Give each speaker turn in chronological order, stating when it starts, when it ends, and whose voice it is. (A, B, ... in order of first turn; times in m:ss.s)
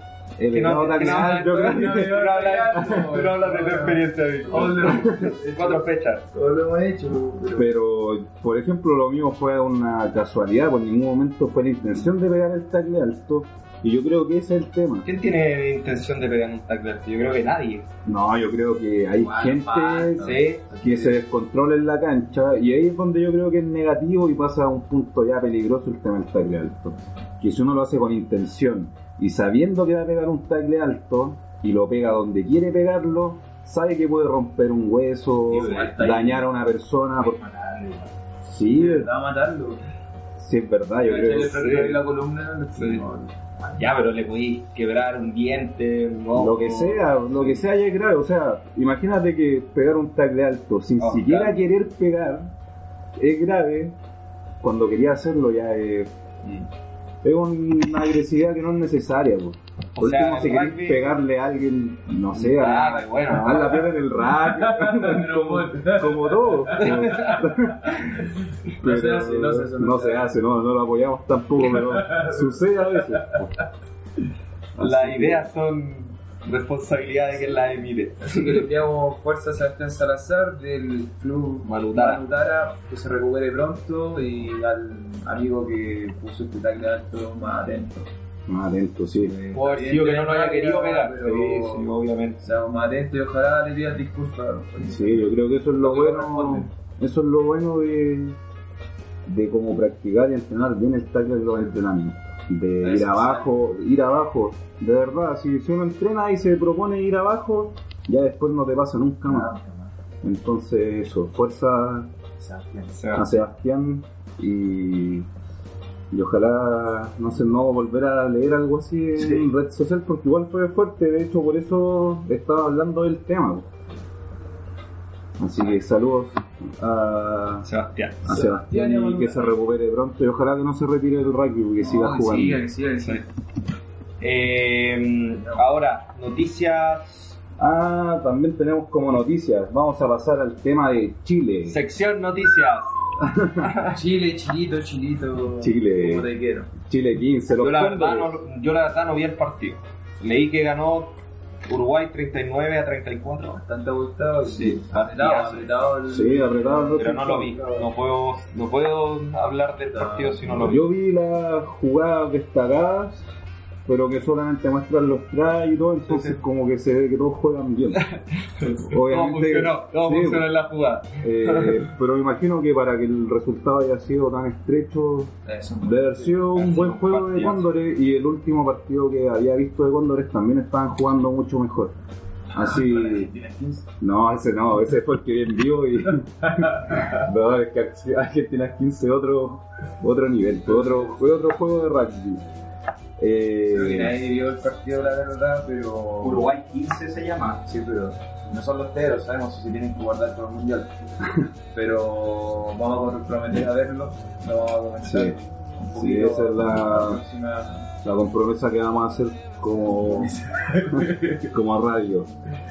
0:00.4-0:02.3 A
0:00.5-0:06.3 B
0:01.0-0:07.7 C
0:07.5-0:15.1 A
0:15.0-0:17.9 B
0:18.0-0:37.4 A
0:19.2-0:21.1 C
0:20.2-0:21.0 B
0:35.4-0:36.5 C
0:37.2-0:38.1 C
0:38.4-0:39.1 A
0:38.7-0:39.8 C
0:40.4-0:41.6 A
0:41.0-0:44.0 C
0:41.5-0:42.0 B
0:42.7-0:43.0 B
0:43.8-0:47.6 B
0:46.3-0:52.5 A
0:51.0-0:51.6 B
0:53.2-0:54.0 A
0:54.6-0:56.1 A
0:57.2-1:08.3 A
0:59.9-1:01.2 B
1:02.3-1:03.9 B
1:04.3-1:08.1 C
1:08.8-1:10.3 C
1:08.8-1:13.6 A
1:11.7-1:13.3 C
1:14.7-1:15.5 A
1:14.8-1:18.6 B
1:17.4-1:28.0 C
1:21.6-1:22.2 B
1:28.5-1:29.3 A
1:29.2-1:31.9 C
1:29.5-1:32.4 B
1:32.4-1:36.7 C
1:34.8-1:38.4 A
1:39.2-1:49.5 A
1:42.8-1:43.5 C
1:49.2-1:49.9 C
1:50.2-1:52.1 A
1:52.4-1:53.3 C
1:52.9-1:53.3 B
1:53.1-1:55.3 A
1:56.1-2:03.7 A
1:59.2-1:59.5 C
2:05.4-2:07.7 A
2:07.6-2:08.3 B
2:08.2-2:12.6 A
2:08.2-2:09.6 C
2:11.8-2:13.3 C
2:14.2-2:17.4 B
2:15.4-2:15.6 C
2:17.6-2:21.8 A
2:21.6-2:23.0 B
2:23.2-2:23.7 A
2:23.6-2:24.0 B
2:23.9-2:26.7 C
2:25.6-2:28.4 A
2:27.6-2:33.6 B
2:33.6-2:37.9 C
2:34.4-2:35.7 B
2:36.1-2:37.5 A
2:37.0-2:40.8 B
2:39.9-2:40.6 C
2:40.5-2:43.3 A
2:43.8-2:48.0 A
2:46.1-2:46.4 B
2:47.9-2:51.9 B
2:48.8-2:50.5 A
2:51.2-3:02.0 A
2:55.4-2:56.5 C
2:56.5-2:57.7 B
3:02.5-3:03.8 C
3:02.5-3:03.3 A
3:04.0-3:12.4 A
3:06.4-3:07.2 C
3:10.6-3:11.2 C
3:13.2-3:14.2 A
3:13.7-3:16.5 C
3:16.2-3:17.6 B
3:17.6-3:21.0 C
3:21.7-3:27.9 C
3:25.0-3:25.4 A
3:25.9-3:27.2 A
3:28.0-3:30.3 A
3:29.8-3:31.5 C
3:31.5-3:32.3 A